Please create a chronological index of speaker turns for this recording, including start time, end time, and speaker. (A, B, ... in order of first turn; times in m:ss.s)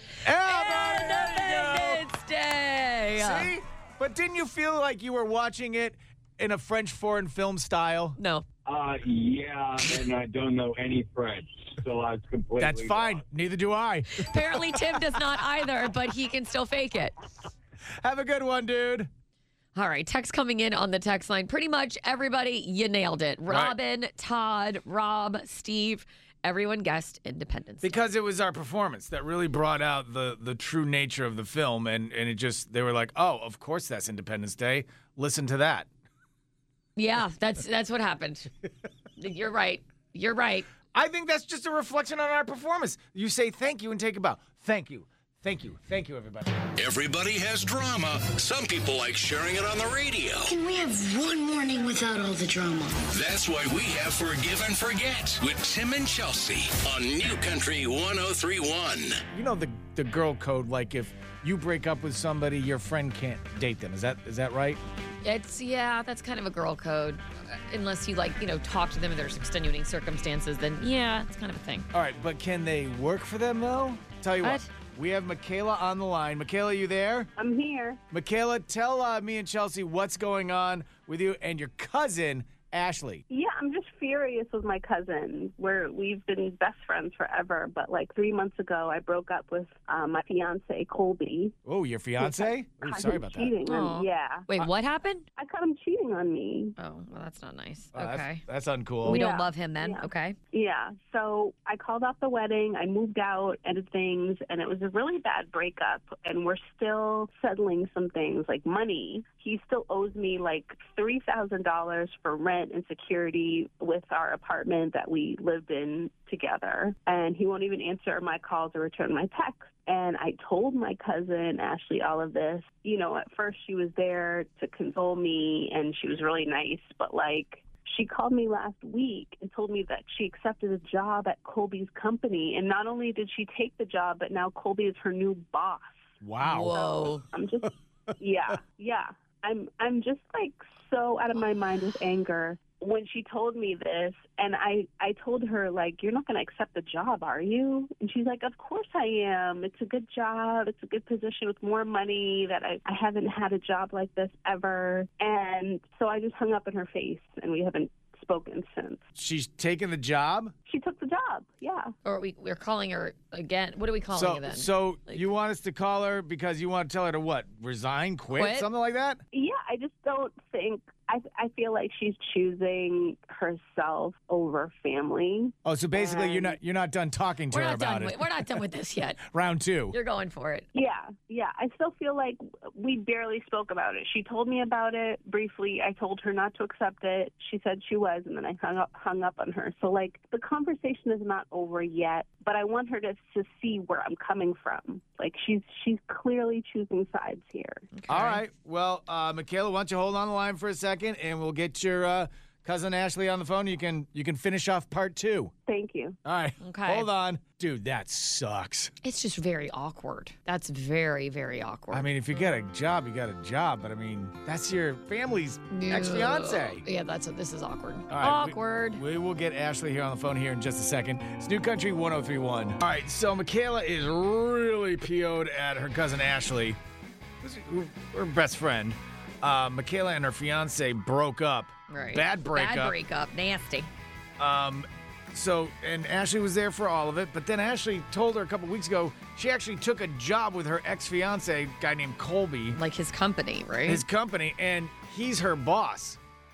0:00.2-0:02.0 A
0:00.4-0:03.5 B
0:03.1-0:08.2 A
0:08.2-0:08.4 B
0:08.6-0:13.2 C
0:12.6-0:14.3 A
0:14.1-0:17.1 B
0:18.0-0:19.1 A
0:19.7-0:28.0 B
0:23.5-0:23.8 A
0:27.8-0:35.9 A
0:37.0-0:38.5 B
0:39.2-0:40.7 B
0:40.9-0:46.6 A
0:46.8-0:50.5 D
0:50.5-0:53.0 E
0:53.1-0:59.2 D
0:59.3-1:04.8 A
1:05.2-1:11.9 B
1:11.9-1:17.3 A
1:14.4-1:14.7 B
1:17.4-1:18.0 F
1:18.1-1:23.2 A
1:23.3-1:31.6 F
1:31.6-1:33.5 A
1:32.2-1:34.5 F
1:33.6-1:35.2 B
1:35.4-1:36.7 F
1:36.8-1:38.4 B
1:37.9-1:39.2 A
1:39.0-1:40.4 B
1:39.0-2:16.2 F
2:16.2-2:16.7 A
2:16.4-2:17.2 B
2:16.7-2:39.0 F
2:39.1-2:40.5 A
2:40.7-2:41.9 F
2:42.0-2:45.2 B
2:44.1-2:49.2 A
2:48.3-2:48.7 B
2:49.3-2:56.6 F
2:55.6-2:58.3 A
2:57.5-2:59.2 B
2:59.3-2:59.9 A
2:59.9-3:00.7 B
3:00.7-3:17.9 F
3:17.9-3:18.4 B
3:18.1-3:25.5 A
3:25.7-3:26.2 F
3:26.2-3:28.9 A
3:26.6-3:27.1 B
3:29.0-3:32.0 B
3:31.9-3:36.8 A
3:35.7-3:39.0 B
3:38.1-3:46.8 A
3:47.4-3:52.9 A
3:51.9-3:53.9 B
3:54.4-4:02.8 A
4:02.7-4:04.0 B
4:03.8-4:06.2 A